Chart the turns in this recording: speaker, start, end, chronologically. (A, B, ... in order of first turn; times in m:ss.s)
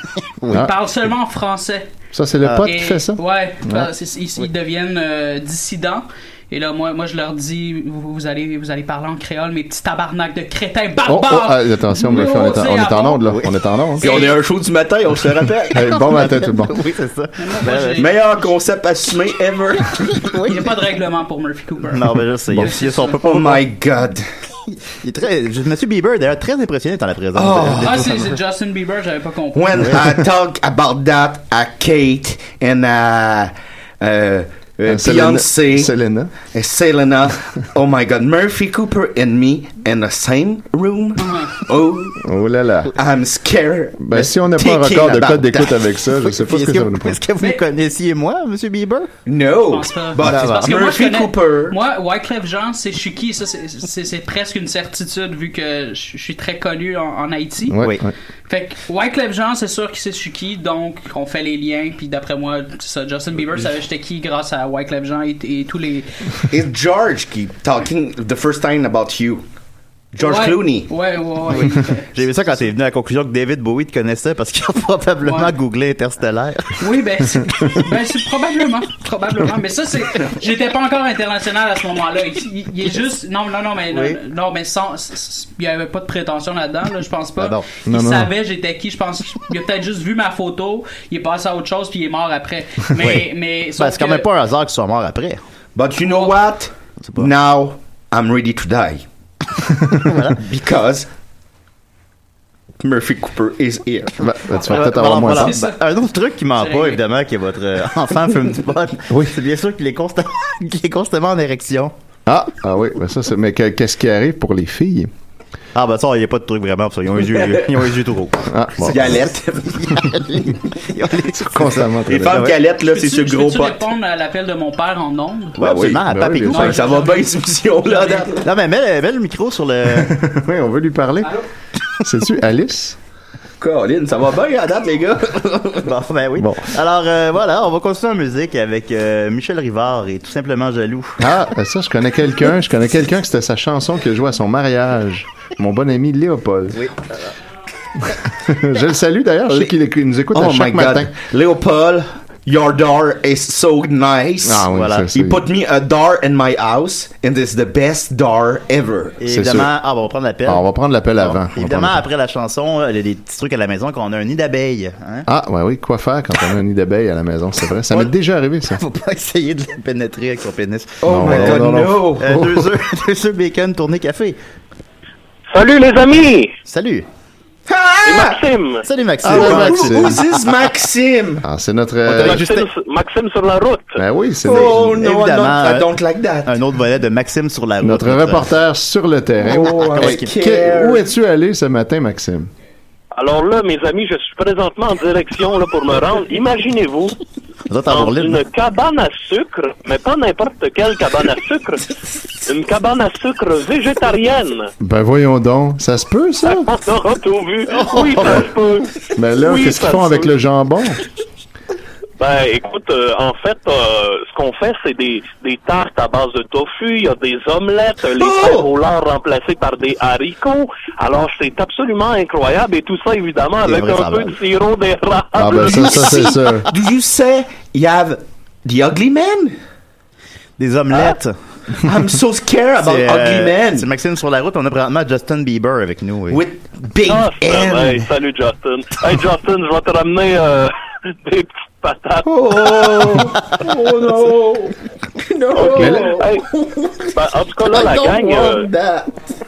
0:00.5-0:01.9 A
0:02.1-0:03.9 B
0:02.6-0:13.2 A
0:11.0-0:14.2 B
0:14.0-0:14.4 A
0:14.0-0:15.8 C
0:15.7-0:16.8 B
0:15.8-0:18.1 D
0:17.4-0:18.1 A
0:18.0-0:20.0 C
0:20.0-0:20.6 D
0:20.4-0:23.2 A
0:21.9-0:23.6 D
0:23.2-0:24.3 C
0:24.9-0:28.4 D
0:27.3-0:28.2 C
0:27.8-0:29.8 A
0:29.5-0:35.9 C
0:34.9-0:36.3 B
0:36.4-0:42.2 C
0:41.2-0:41.6 A
0:42.2-0:43.0 B
0:42.9-0:45.8 C
0:44.0-0:47.2 B
0:46.2-0:49.1 D
0:49.3-0:51.8 C
0:49.6-0:57.8 A
0:50.2-0:50.7 D
0:57.7-0:58.1 B
0:57.8-0:58.0 D
0:58.5-1:06.1 A
1:06.5-1:09.4 C
1:10.1-1:10.9 C
1:10.2-1:12.1 A
1:11.6-1:16.8 D
1:15.2-1:15.5 A
1:16.8-1:34.3 A
1:23.9-1:24.2 D
1:27.4-1:27.7 D
1:27.9-1:28.3 B
1:33.0-1:35.4 D
1:35.8-1:39.0 C
1:36.0-1:36.4 A
1:37.0-1:37.3 D
1:39.9-1:40.6 D
1:40.4-1:41.1 C
1:42.8-1:44.2 C
1:44.2-1:45.6 B
1:44.4-1:51.9 D
1:44.7-1:45.8 A
1:46.5-1:47.0 A
1:52.3-1:55.1 B
1:55.8-1:59.2 D
1:57.4-1:57.6 C
1:58.5-1:59.2 B
1:58.8-2:00.0 C
1:59.7-2:02.6 D
2:01.4-2:02.5 B
2:02.1-2:03.8 C
2:02.8-2:05.6 A
2:05.6-2:06.8 D
2:05.6-2:06.7 B
2:05.7-2:06.0 C
2:06.5-2:07.3 A
2:06.6-2:08.4 C
2:07.8-2:08.3 A
2:08.3-2:10.2 D
2:09.9-2:11.4 B
2:12.0-2:13.0 B
2:13.6-2:15.9 C
2:15.8-2:21.2 D
2:16.4-2:16.7 B
2:21.2-2:26.8 B
2:26.7-2:27.2 D
2:28.2-2:31.1 B
2:30.3-2:39.2 C
2:34.4-2:35.4 B
2:34.7-2:35.1 D
2:39.2-2:40.6 D
2:39.3-2:39.7 B
2:40.5-2:42.1 B
2:41.2-2:45.3 D
2:45.3-2:48.8 B
2:48.7-2:54.4 D
2:51.0-2:52.4 C
2:51.0-2:52.6 B
2:55.5-2:56.5 E
2:56.7-2:57.1 D
2:57.7-2:58.4 C
2:58.0-2:58.8 E
2:58.8-3:00.4 D
2:59.2-3:00.2 B
2:59.2-3:01.4 C
3:01.4-3:02.5 B
3:02.1-3:02.6 D
3:02.2-3:04.0 E
3:04.0-3:05.0 B
3:04.4-3:06.6 C
3:05.0-3:05.9 D
3:06.4-3:08.5 D
3:07.8-3:12.5 B
3:09.4-3:11.0 C
3:09.5-3:10.3 D
3:13.1-3:17.2 E
3:17.7-3:18.4 D
3:17.9-3:21.9 E
3:22.5-3:24.7 E
3:24.8-3:26.7 B
3:26.4-3:28.9 E
3:29.2-3:31.0 B
3:29.4-3:30.3 E
3:32.2-3:46.2 E
3:38.2-3:38.7 C
3:43.6-3:44.4 D
3:45.4-3:46.7 B
3:45.6-3:49.6 C
3:50.6-3:51.4 D
3:51.8-3:53.9 C
3:52.8-3:56.4 D
3:56.3-3:58.1 C
3:57.1-4:02.3 E
4:02.2-4:09.1 C
4:05.6-4:06.5 E
4:05.8-4:06.1 B
4:07.1-4:08.7 E